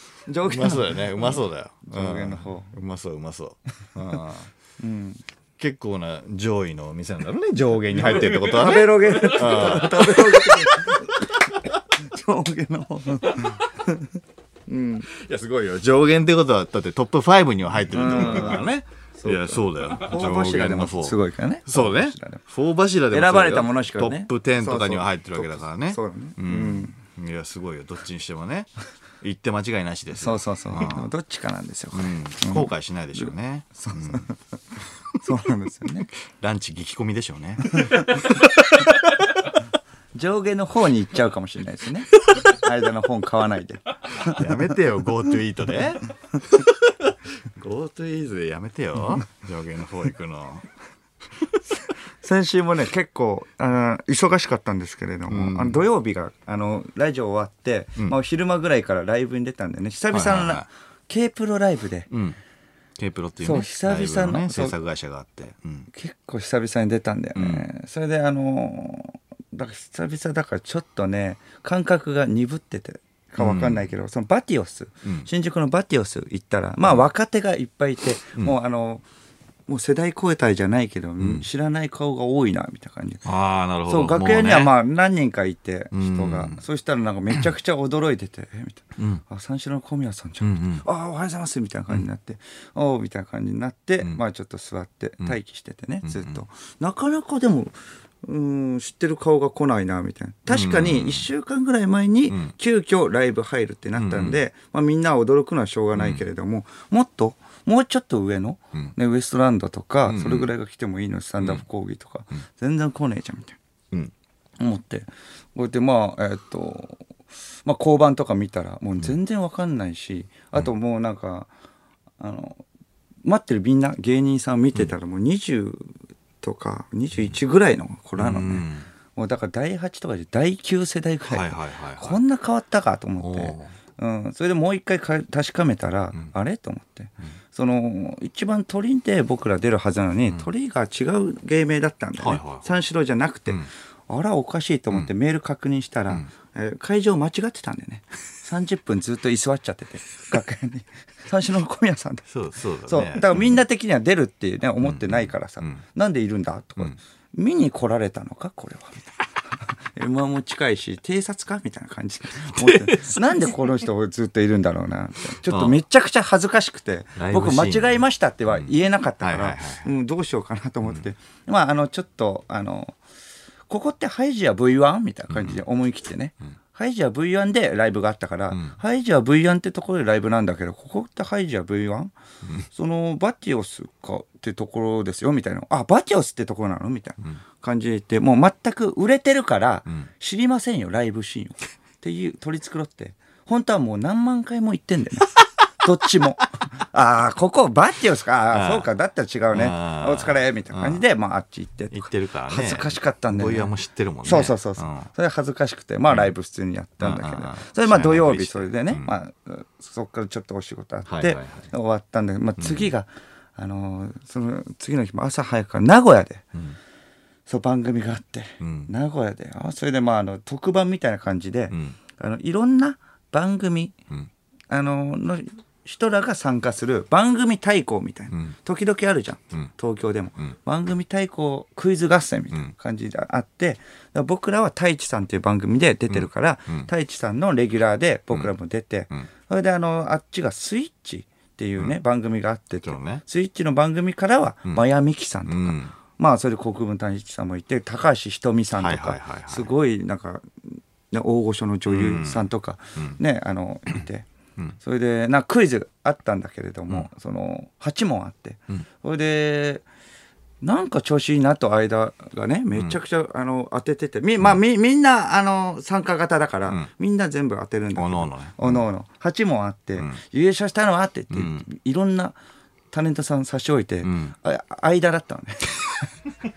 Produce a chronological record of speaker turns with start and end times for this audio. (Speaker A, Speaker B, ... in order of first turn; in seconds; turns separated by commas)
Speaker A: 0.2-2.7, Speaker B: 0.4-4.5, Speaker A: 4.8-5.2, Speaker B: 5.6-11.8, Speaker A: 7.9-15.1, Speaker B: 15.1-28.7, Speaker A: 17.9-22.4, Speaker A: 23.1-26.9, Speaker B: 29.2-31.1, Speaker A: 30.2-34.4, Speaker B: 31.9-34.3, Speaker A: 35.2-36.1, Speaker B: 36.1-39.5, Speaker A: 37.8-38.1, Speaker A: 40.1-44.7, Speaker B: 44.2-50.6, Speaker A: 52.2-62.1, Speaker B: 55.3-55.9, Speaker B: 60.1-60.6, Speaker B: 62.1-62.4, Speaker B: 63.0-65.9, Speaker A: 63.4-64.8, Speaker A: 65.9-79.0, Speaker B: 67.3-67.7, Speaker B: 73.4-73.9, Speaker A: 79.7-83.2, Speaker B: 81.2-81.4, Speaker B: 83.2-84.7, Speaker A: 83.9-113.6, Speaker B: 85.9-86.6, Speaker B: 90.4-90.8, Speaker B: 96.0-96.4, Speaker B: 100.5-101.3, Speaker B: 102.3-102.5, Speaker B: 104.0-104.4, Speaker B: 106.0-106.2, Speaker B: 110.0-110.5, Speaker A: 114.6-117.0, Speaker A: 117.6-121.5, Speaker A: 122.2-122.6, Speaker A: 123.2-152.2, Speaker B: 128.2-128.9, Speaker B: 131.2-132.2, Speaker B: 133.2-133.7, Speaker B: 142.2-142.7, Speaker B: 152.3-153.6, Speaker A: 152.9-172.9, Speaker B: 154.8-155.8, Speaker B: 162.5-163.6, Speaker B: 165.5-165.8, Speaker B: 167.2-168.0, Speaker B: 169.2-169.9, Speaker A: 173.7-182.1, Speaker B: 175.3-175.6, Speaker B: 178.5-178.8, Speaker A: 182.7-203.7, Speaker B: 198.5-198.9, Speaker B: 199.5-201.0, Speaker B: 201.9-205.1, Speaker A: 204.2-216.4, Speaker B: 207.0-209.1, Speaker B: 211.1-211.7, Speaker B: 212.6-212.9, Speaker A: 217.5-223.9, Speaker B: 218.6-218.9, Speaker B: 221.7-222.0, Speaker A: 224.7-254.3, Speaker B: 236.1-236.9, Speaker B: 242.8-243.2, Speaker B: 245.5-245.9, Speaker B: 248.8-249.7, Speaker B: 251.9-253.2, Speaker A: 254.8-259.8, Speaker A: 260.6-272.4, Speaker B: 267.9-268.8, Speaker B: 271.3-271.6, Speaker A: 272.9-276.1, Speaker B: 274.0-274.3